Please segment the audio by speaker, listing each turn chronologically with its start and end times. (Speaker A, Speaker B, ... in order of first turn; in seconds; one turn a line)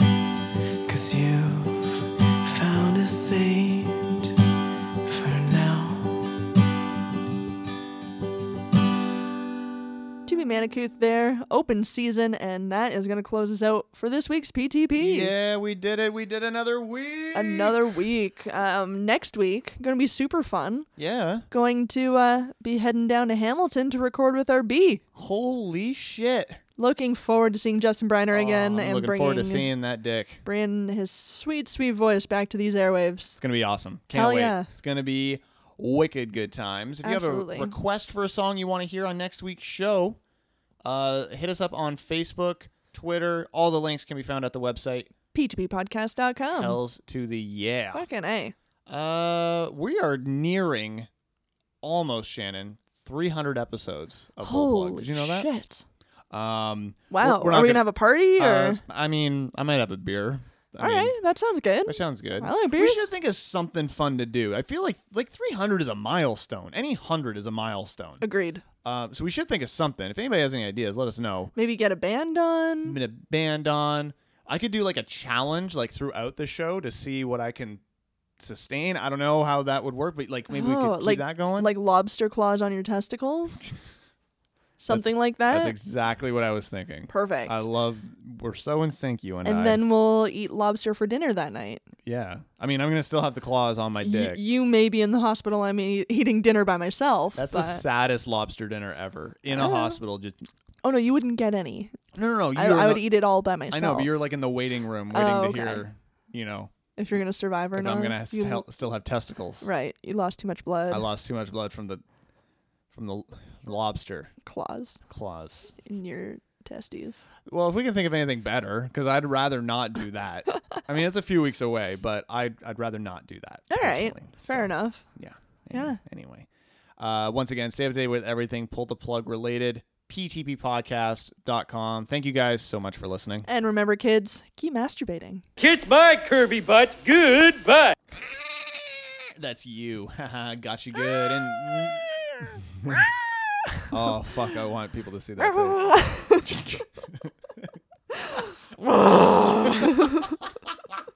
Speaker A: 0.8-4.3
Speaker A: 5.0-6.2
Speaker B: 10.3-15.3
Speaker C: 15.0-17.8
Speaker B: 17.3-20.9
Speaker C: 21.0-21.5
Speaker B: 21.5-25.0
Speaker C: 25.1-26.6
Speaker B: 26.8-29.7
Speaker C: 28.3-30.4
Speaker B: 30.4-33.4
Speaker C: 33.4-40.2
Speaker B: 34.1-34.7
Speaker B: 37.0-37.8
Speaker C: 40.8-45.1
Speaker B: 45.3-46.8
Speaker C: 46.6-48.1
Speaker B: 47.9-48.5
Speaker C: 48.9-51.1
Speaker C: 51.8-55.5
Speaker B: 54.4-55.9
Speaker C: 56.3-61.1
Speaker B: 57.1-58.8
Speaker B: 60.8-63.1
Speaker C: 61.9-68.2
Speaker B: 68.2-68.6
Speaker C: 68.8-71.5
Speaker B: 71.5-73.0
Speaker C: 72.8-77.8
Speaker C: 78.4-81.7
Speaker B: 80.5-83.7
Speaker B: 84.8-85.8
Speaker C: 84.9-89.8
Speaker B: 87.1-87.6
Speaker B: 89.5-91.9
Speaker C: 92.1-94.4
Speaker B: 94.0-97.8
Speaker C: 97.4-100.5
Speaker B: 99.5-100.0
Speaker B: 100.8-101.9
Speaker C: 102.2-103.1
Speaker B: 102.5-104.2
Speaker C: 103.7-106.7
Speaker B: 105.1-105.8
Speaker B: 107.0-108.7
Speaker C: 107.7-109.7
Speaker B: 109.6-111.1
Speaker C: 110.9-112.0
Speaker C: 112.9-114.3
Speaker B: 114.4-115.0
Speaker C: 115.1-115.8
Speaker B: 115.8-117.2
Speaker C: 117.5-126.5
Speaker B: 123.7-125.1
Speaker B: 125.7-126.0
Speaker C: 127.0-133.5
Speaker B: 133.5-135.4
Speaker D: 135.6-137.9
Speaker C: 139.4-142.0
Speaker B: 141.1-143.2
Speaker C: 142.7-143.0
Speaker C: 143.9-147.3
Speaker B: 145.4-146.7
Speaker B: 148.8-150.4